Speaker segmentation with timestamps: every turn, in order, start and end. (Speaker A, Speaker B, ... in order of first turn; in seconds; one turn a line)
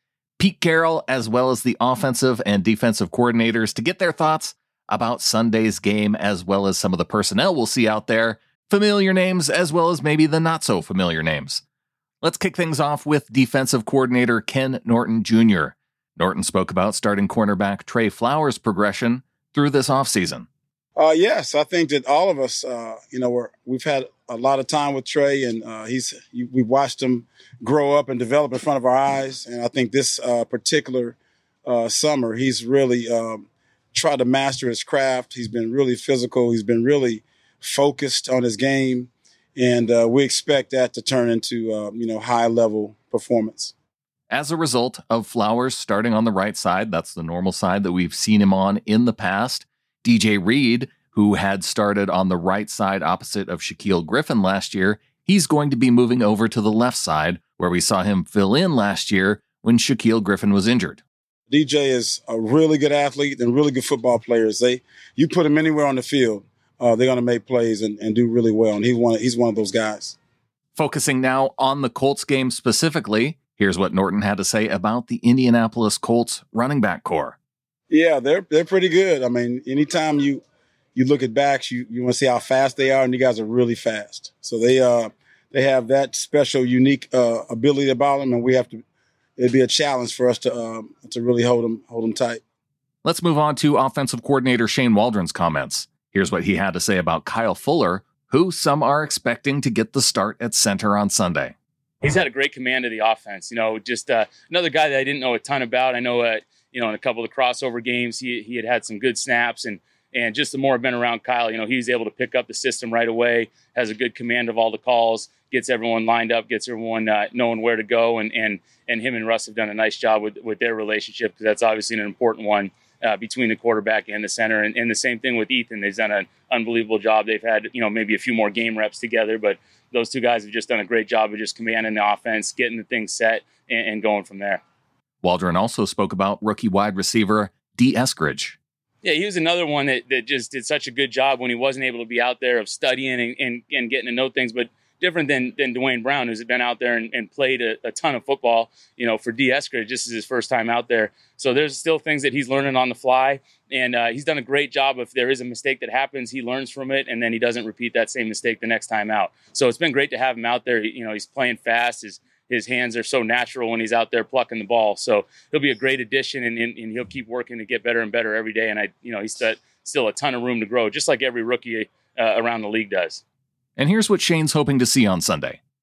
Speaker A: 0.4-11.6
Speaker A: 12.2-20.5
Speaker B: 20.9-43.7
Speaker A: 44.3-61.0
Speaker B: 61.5-70.2
Speaker A: 70.7-77.4
Speaker B: 77.9-80.4
Speaker B: 80.9-88.8
Speaker B: 89.4-92.4
Speaker A: 93.0-101.5
Speaker C: 102.0-134.6
Speaker A: 135.2-138.6
Speaker C: 139.0-173.2
Speaker A: 173.8-175.6